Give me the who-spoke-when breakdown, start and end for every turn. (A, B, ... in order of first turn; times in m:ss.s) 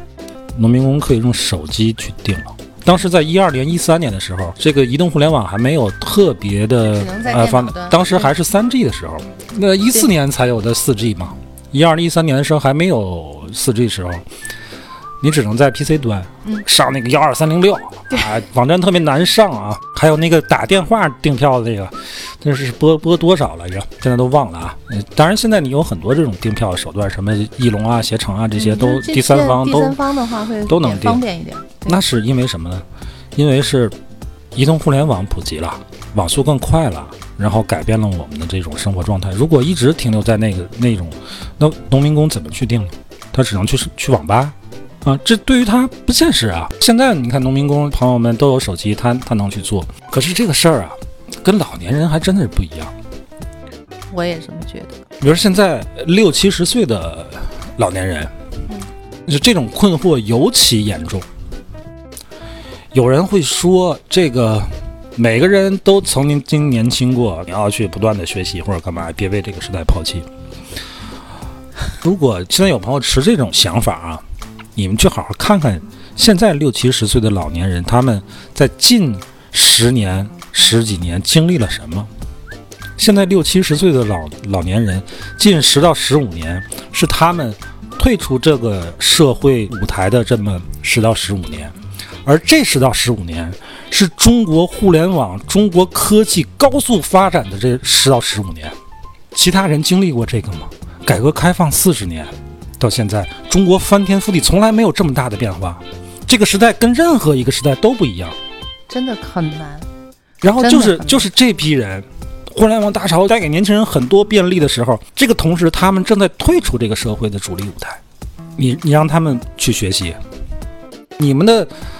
0:00.5-0:14.2 A
0:06.8-0:08.3 B
0:15.2-0:30.0 A
0:28.5-0:32.0 B
0:30.7-0:31.2 A
0:31.8-0:33.9 A
0:34.5-0:52.9 A
0:54.1-0:55.0 B
0:55.2-0:58.3 A
0:59.2-1:01.2 A
1:02.9-1:10.3 A
1:12.0-1:14.2 A
1:14.8-1:22.1 A
1:23.0-1:31.7 A
1:32.2-1:38.7 A
1:39.3-1:48.4 A
1:48.9-1:49.8 B
1:50.4-1:58.0 A
1:50.5-1:51.2 B
1:58.6-2:00.2 A
2:01.2-2:01.7 A